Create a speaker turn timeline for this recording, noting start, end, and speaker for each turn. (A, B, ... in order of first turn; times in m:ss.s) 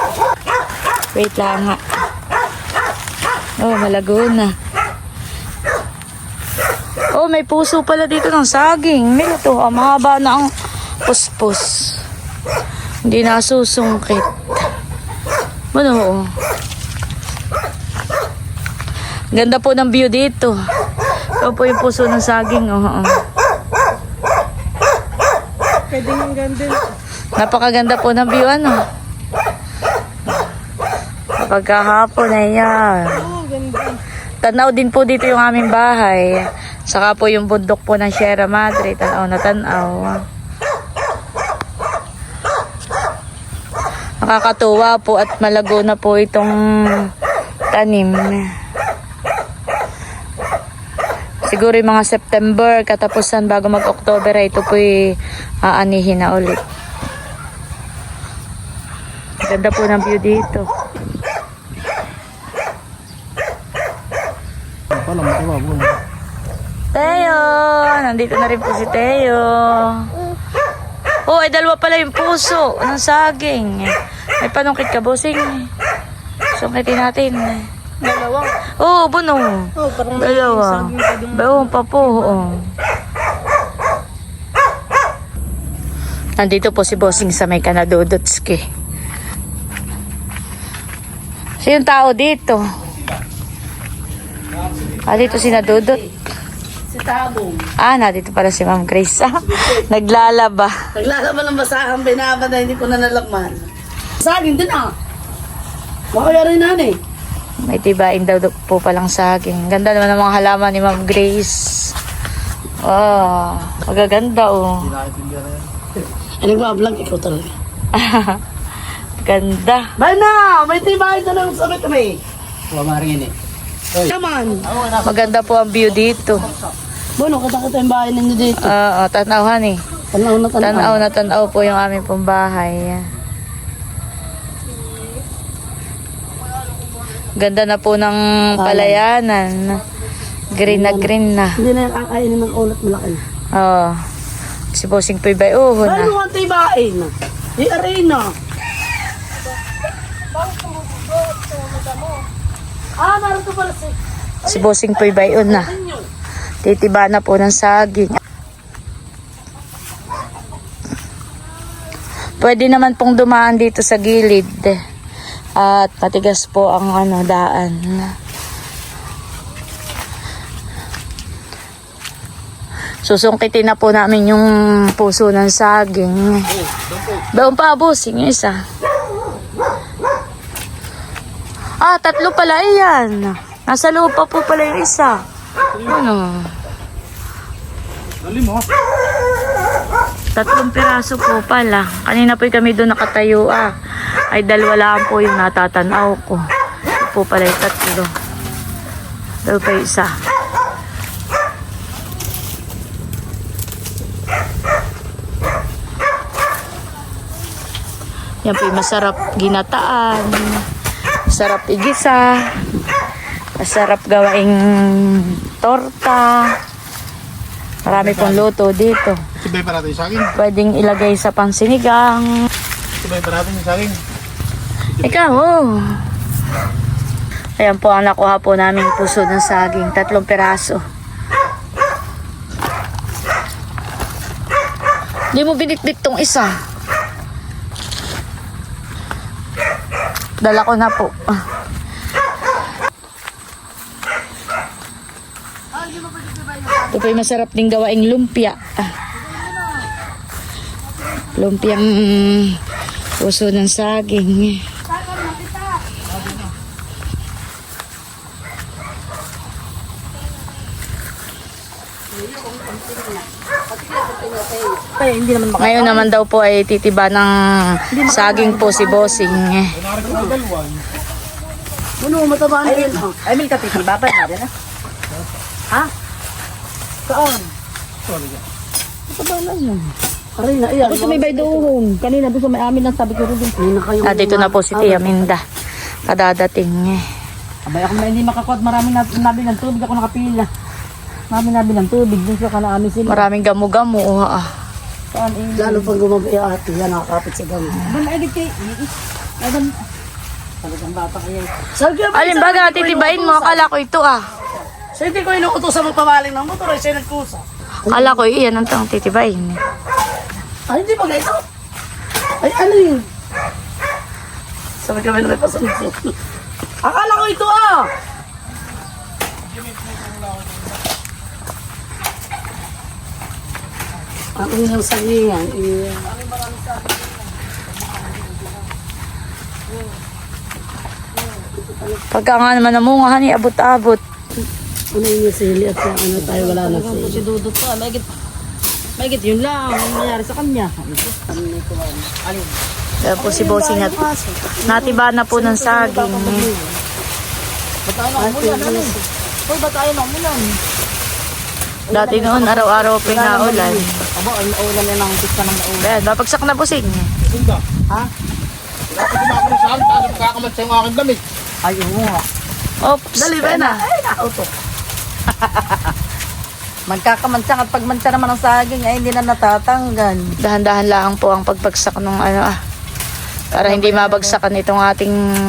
0:01.1-0:01.8 A
0:03.6-0:04.5 A
0:07.1-0:10.5 A
0:11.0-0:12.0 A
0:13.0-0:14.3 A
0:15.7-0:16.2 A
0:19.3-0:20.6 A
0:21.4-0:23.1 A
0:25.9-0:26.8 B
0:27.4-0:28.8 A
0:31.4-0:33.3 A
0:33.3-0:33.9 B
0:34.4-0:40.2 A
0:44.2-0:46.5 A
0:47.7-0:48.4 A
0:51.4-0:55.0 A
0:55.6-0:56.6 A
0:59.4-1:00.7 A
1:04.9-1:06.0 C
1:06.9-1:10.1 A
1:11.3-1:15.7 A
1:16.6-1:17.6 A
1:18.0-1:18.4 B
1:18.8-1:22.6 A
1:19.8-1:21.7 B
1:26.4-1:28.6 A
1:31.6-1:32.6 A
1:34.7-1:35.0 C
1:35.0-1:36.0 A
1:35.1-1:35.9 B
1:36.9-1:37.6 D
1:37.8-1:40.7 A
1:40.9-1:44.9 D
1:46.1-1:47.0 D
1:47.7-1:51.9 A
1:52.8-1:54.9 A
1:54.8-1:55.6 C
1:56.4-1:57.5 D
1:57.9-1:58.4 A
1:59.2-1:59.8 A
2:00.0-2:02.2 D
2:02.7-2:03.3 B
2:04.0-2:04.6 D
2:04.7-2:05.4 C
2:05.0-2:06.5 A
2:07.2-2:08.7 D
2:08.6-2:09.8 A
2:10.1-2:11.0 D
2:10.6-2:13.0 A
2:17.4-2:19.8 A
2:18.6-2:19.0 D
2:20.5-2:21.6 A
2:20.6-2:23.2 D
2:23.5-2:24.0 A
2:24.7-2:26.1 A
2:25.8-2:28.3 D
2:30.4-2:31.9 D
2:33.0-2:36.0 D
2:34.4-2:35.7 A
2:36.6-2:38.2 A
2:42.4-2:44.8 A
2:45.6-2:48.1 A
2:53.0-2:56.5 A
2:56.5-2:57.2 C
2:57.3-2:58.6 A
3:01.8-3:05.2 A
3:05.7-3:06.0 C
3:05.8-3:06.5 A
3:08.2-3:08.7 C
3:10.4-3:13.7 A
3:14.3-3:16.4 A
3:17.0-3:18.1 A
3:19.4-3:20.1 A
3:28.4-3:30.6 A
3:31.3-3:32.4 A
3:33.6-3:36.5 A
3:37.8-3:38.4 C
3:37.8-3:39.2 A
3:39.4-3:40.3 C
3:40.3-3:42.3 A
3:43.0-3:44.0 C
3:44.9-3:45.4 C
3:45.0-3:45.8 A
3:47.6-3:50.8 A
3:55.3-3:56.5 A
4:00.4-4:01.4 A
4:05.8-4:07.0 D
4:06.9-4:08.6 A
4:11.4-4:12.6 A
4:13.2-4:14.6 A
4:15.1-4:15.6 D
4:16.1-4:16.4 B
4:22.1-4:24.8 D
4:25.0-4:26.1 B
4:25.6-4:29.7 A
4:27.9-4:29.3 B
4:29.7-4:30.8 C
4:30.0-4:30.3 D
4:32.0-4:33.2 D
4:32.6-4:34.5 B
4:37.1-4:37.5 B
4:38.1-4:38.4 C
4:39.1-4:39.9 B
4:40.4-4:41.7 D
4:40.8-4:43.5 B
4:43.6-4:45.3 D
4:44.0-4:45.4 A
4:46.1-4:47.0 A
4:47.6-4:50.5 B
4:51.3-4:53.2 B
4:53.1-4:54.4 A
4:55.1-4:55.9 B
4:55.6-4:57.8 D
4:57.8-4:59.7 B
5:00.6-5:01.5 B
5:01.8-5:03.7 D
5:02.1-5:04.2 A
5:04.9-5:08.2 D
5:07.8-5:09.6 A
5:10.7-5:11.4 D
5:12.4-5:13.0 D
5:14.8-5:16.1 D
5:16.8-5:17.9 D
5:19.6-5:20.7 C
5:24.4-5:26.1 D
5:26.2-5:26.5 B
5:27.9-5:28.4 B
5:31.5-5:32.0 D
5:32.1-5:34.0 A
5:34.9-5:37.2 D
5:36.2-5:38.1 B
5:39.0-5:41.2 B
5:41.2-5:42.1 D
5:42.2-5:42.6 B
5:43.0-5:44.0 A
5:43.2-5:46.8 D
5:44.6-5:46.5 A
5:47.8-5:50.6 B
5:48.2-5:49.0 D
5:51.9-5:56.0 B
5:51.9-5:53.8 A
5:55.8-5:57.1 A
5:57.2-5:57.6 C
5:58.9-6:01.2 C
6:01.6-6:02.2 B
6:02.8-6:03.8 A
6:03.2-6:04.5 D
6:05.3-6:05.9 B
6:06.9-6:10.3 B
6:10.4-6:12.6 A
6:13.5-6:14.4 B
6:13.5-6:15.1 A